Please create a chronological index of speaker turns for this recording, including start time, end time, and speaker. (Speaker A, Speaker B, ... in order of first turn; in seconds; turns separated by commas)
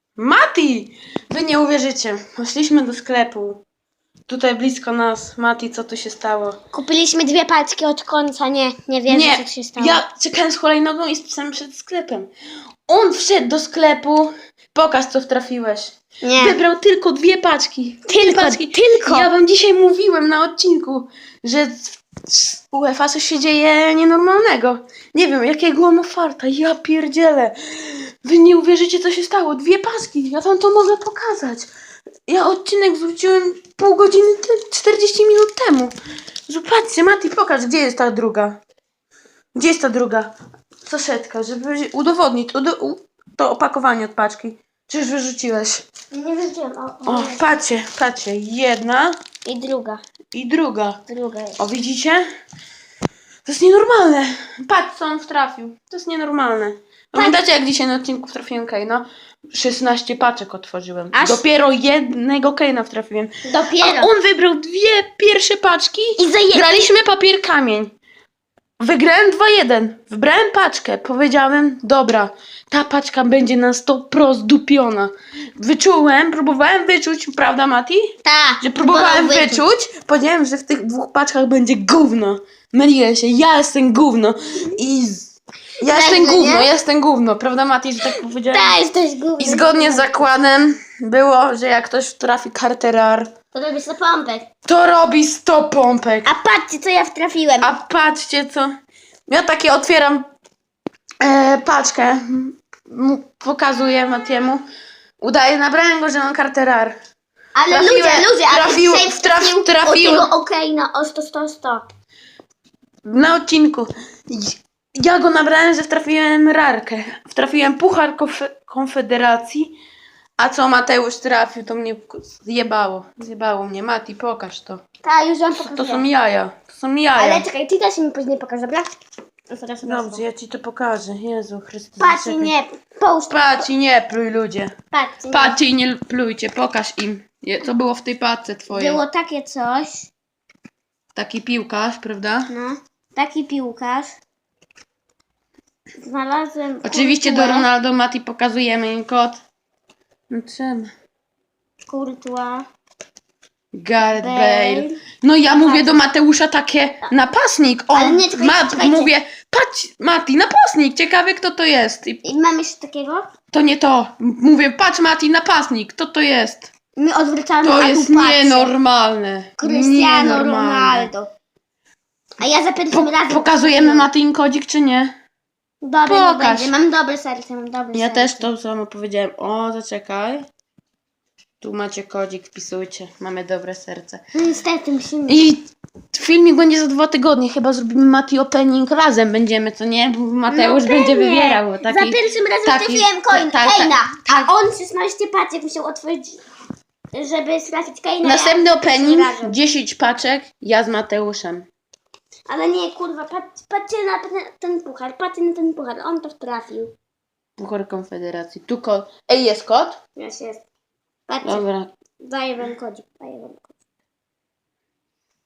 Speaker A: 0.2-3.6, Speaker A: 4.3-6.6, Speaker B: 6.7-10.0, Speaker A: 9.1-12.3, Speaker A: 12.9-31.7, Speaker B: 16.2-16.6, Speaker B: 18.1-19.3, Speaker A: 32.3-35.9, Speaker A: 36.5-38.6, Speaker A: 39.5-40.3, Speaker A: 40.8-45.9, Speaker B: 46.1-47.4, Speaker A: 47.0-49.1, Speaker B: 49.4-50.0, Speaker A: 50.3-51.0, Speaker B: 51.1-51.6, Speaker A: 51.6-52.2, Speaker A: 53.4-67.9, Speaker B: 57.1-57.4, Speaker B: 61.1-61.4, Speaker B: 63.4-64.1, Speaker B: 66.2-66.9, Speaker A: 68.8-78.1, Speaker B: 78.2-79.6, Speaker A: 78.6-88.7, Speaker B: 85.8-86.7, Speaker B: 88.5-90.3, Speaker A: 89.4-93.3, Speaker B: 93.5-94.5, Speaker A: 94.7-96.3, Speaker B: 96.2-97.7, Speaker A: 97.6-98.7, Speaker A: 99.3-100.2, Speaker A: 101.2-104.6, Speaker A: 105.2-106.9, Speaker B: 107.5-111.9, Speaker A: 107.7-110.3, Speaker A: 113.0-119.7, Speaker A: 120.4-124.8, Speaker B: 125.0-126.0, Speaker A: 125.6-127.5, Speaker B: 127.1-128.9, Speaker B: 129.5-130.2, Speaker A: 129.8-132.5, Speaker B: 132.0-133.6, Speaker A: 133.3-134.7, Speaker B: 134.9-135.6, Speaker A: 135.3-139.0, Speaker B: 138.7-140.1, Speaker A: 141.1-142.5, Speaker B: 142.5-144.2, Speaker B: 146.0-147.7, Speaker A: 146.8-149.4, Speaker A: 150.3-150.9, Speaker B: 151.9-152.7, Speaker A: 153.7-162.2, Speaker B: 154.1-156.0, Speaker B: 157.9-159.1, Speaker B: 162.2-163.3, Speaker A: 163.5-166.7, Speaker B: 166.9-168.7, Speaker A: 167.6-171.1, Speaker B: 169.6-171.3, Speaker B: 172.4-174.1, Speaker A: 172.9-175.1, Speaker B: 175.8-178.5, Speaker A: 176.1-176.7, Speaker A: 177.9-180.5, Speaker A: 181.6-184.2, Speaker B: 184.3-185.4, Speaker A: 185.3-194.5, Speaker B: 190.5-196.4, Speaker B: 197.1-199.6, Speaker A: 198.2-201.7, Speaker B: 202.5-206.9, Speaker A: 207.6-210.0, Speaker B: 210.2-210.6, Speaker B: 211.3-211.6, Speaker A: 211.4-211.9, Speaker B: 212.2-213.7